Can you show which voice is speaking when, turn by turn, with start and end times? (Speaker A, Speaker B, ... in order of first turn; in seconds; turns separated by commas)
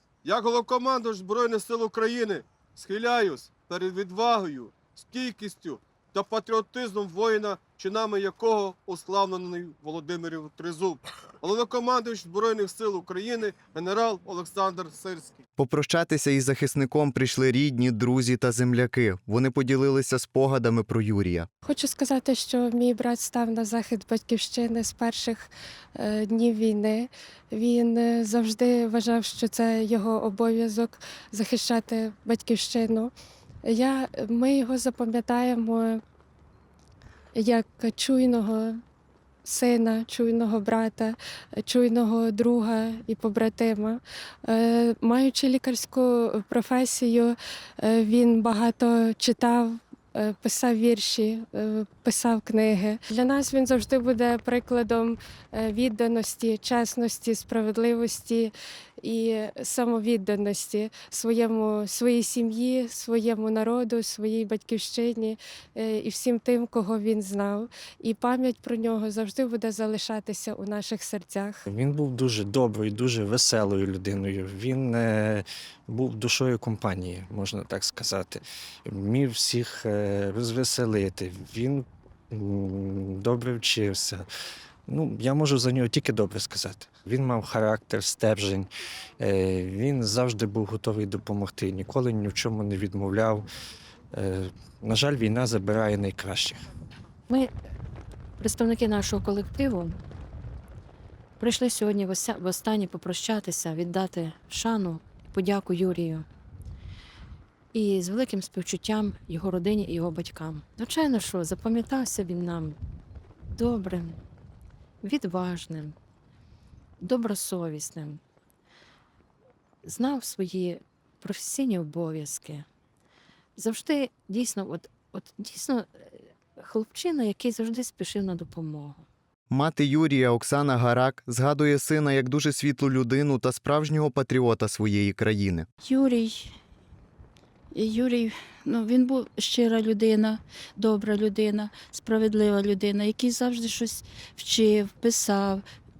Speaker A: 0.2-15.4, Speaker B: 15.6-21.5, Speaker C: 21.6-33.1, Speaker C: 33.6-36.0, Speaker C: 37.4-38.8, Speaker C: 39.5-71.6, Speaker D: 71.7-84.3, Speaker D: 84.9-93.5, Speaker D: 94.1-96.6, Speaker E: 98.4-100.0, Speaker E: 101.4-106.3, Speaker E: 107.7-112.8, Speaker E: 113.5-114.2, Speaker E: 115.0-116.0, Speaker E: 117.0-118.2, Speaker E: 119.8-122.7, Speaker E: 123.6-129.1, Speaker B: 129.5-135.7, Speaker F: 135.8-136.5, Speaker F: 137.7-145.6